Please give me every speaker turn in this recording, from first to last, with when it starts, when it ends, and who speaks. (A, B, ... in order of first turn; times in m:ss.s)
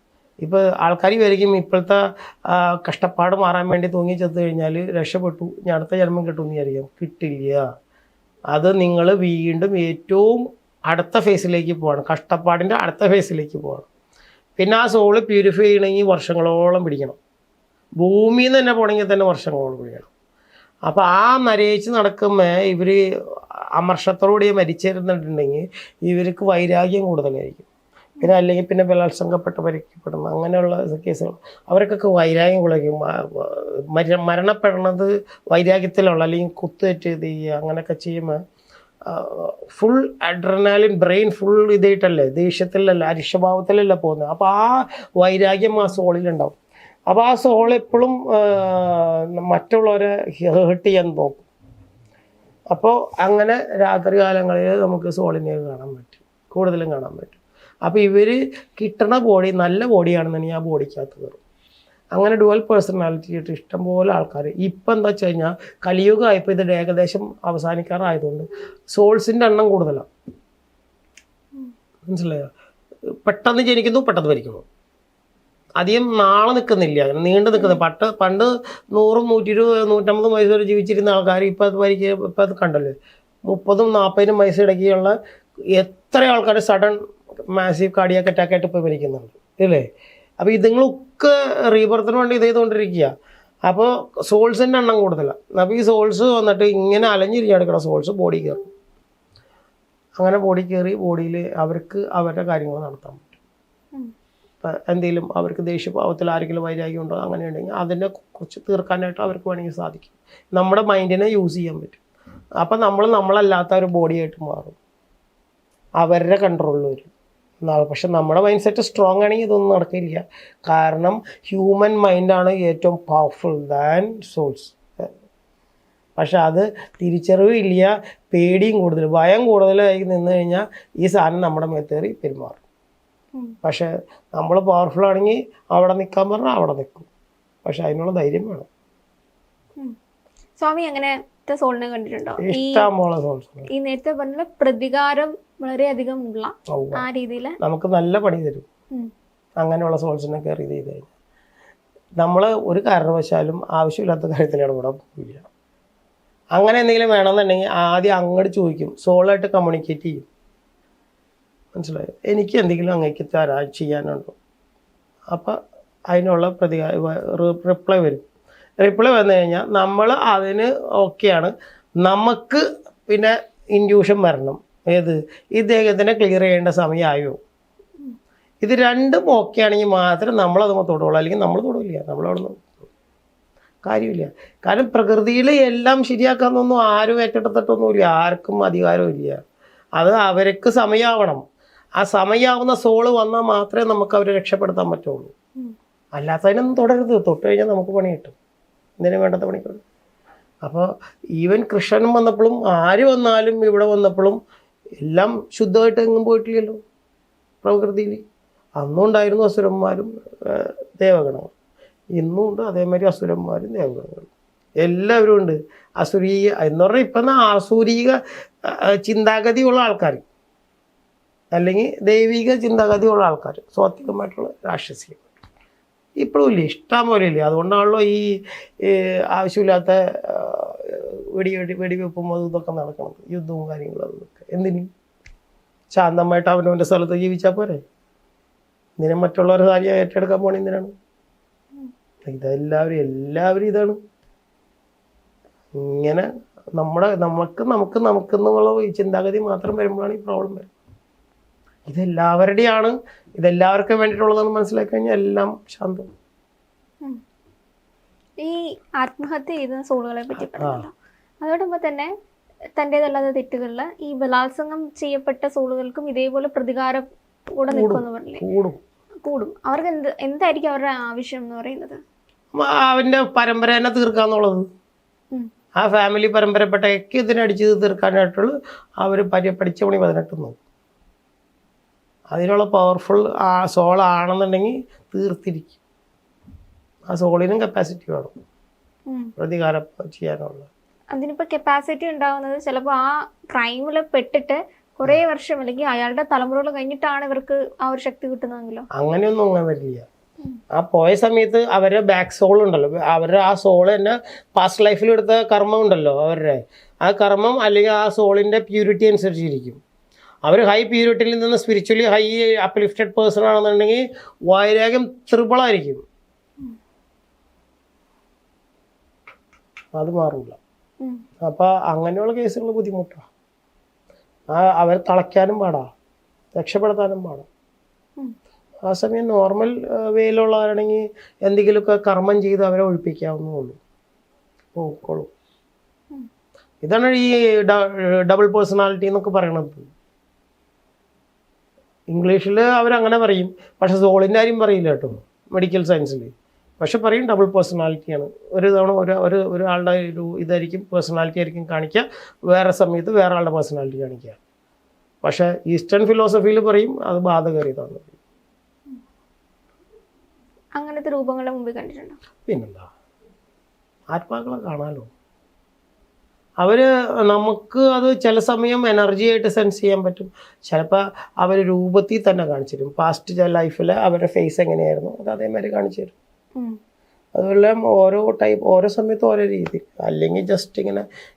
0:00.4-0:07.7 A
0:08.5-0:13.9 A
0:14.6-0:17.2 A
0:18.0-0:20.1 A
0:20.9-0:23.0 A
0:23.8-0:27.7 A
0:28.2-0:38.4 A
0:39.1-0:46.6 A
0:47.1-0:51.5 A
0:52.7-1:01.4 A
1:02.2-1:10.1 A
1:12.1-1:12.5 A
1:13.2-1:14.6 A
1:15.8-1:22.9 A
1:17.6-1:17.8 B
1:23.5-1:25.2 A
1:25.8-1:27.0 A
1:27.5-1:29.9 A
1:30.4-1:33.1 A
1:33.7-1:38.7 A
1:40.2-1:43.4 A
1:44.6-1:52.0 A
1:52.6-1:54.8 A
1:56.0-1:57.1 A
1:57.6-2:05.1 A
2:06.2-2:12.6 A
2:13.6-2:17.1 A
2:17.6-2:18.7 A
2:20.6-2:22.9 B
2:22.4-2:23.7 A
2:23.7-2:27.6 B
2:26.7-2:27.0 A
2:27.6-2:28.7 A
2:29.6-2:31.1 A
2:32.2-2:35.5 A
2:36.6-2:40.2 A
2:41.8-2:44.4 A
2:45.3-2:45.6 A
2:46.1-2:48.2 A
2:48.8-2:57.4 A
2:58.6-3:02.8 A
3:03.8-3:09.4 A
3:10.0-3:11.4 A
3:12.0-3:15.3 A
3:16.2-3:18.4 A
3:19.0-3:19.8 A
3:20.6-3:24.4 A
3:25.0-3:26.8 A
3:27.6-3:28.2 A
3:28.8-3:31.5 A
3:32.2-3:34.3 A
3:34.8-3:40.2 A
3:41.5-3:45.3 A
3:46.2-3:54.9 A
3:55.9-3:57.8 A
3:59.0-4:00.9 A
4:02.2-4:04.0 A
4:05.7-4:10.7 A
4:11.9-4:16.1 A
4:18.4-4:22.1 B
4:20.5-4:20.8 A
4:22.8-4:28.4 B
4:27.7-4:28.8 A
4:29.2-4:32.0 B
4:32.5-4:34.7 A
4:35.8-4:40.6 A
4:42.3-4:45.8 A
4:47.1-4:48.3 A
4:49.4-4:50.7 A
4:51.1-4:58.9 B
4:59.0-5:00.1 A
5:00.7-5:09.8 A
5:10.5-5:16.0 A
5:20.0-5:20.6 A
5:21.4-5:23.3 A
5:24.5-5:25.9 A
5:26.6-5:27.5 A
5:28.9-5:33.8 A
5:34.8-5:35.3 A
5:36.8-5:39.9 A
5:42.1-5:54.4 A
5:55.2-5:58.1 A
6:00.8-6:02.2 B
6:02.5-6:02.9 A
6:04.1-6:05.1 A
6:06.6-6:16.2 A
6:17.4-6:21.0 A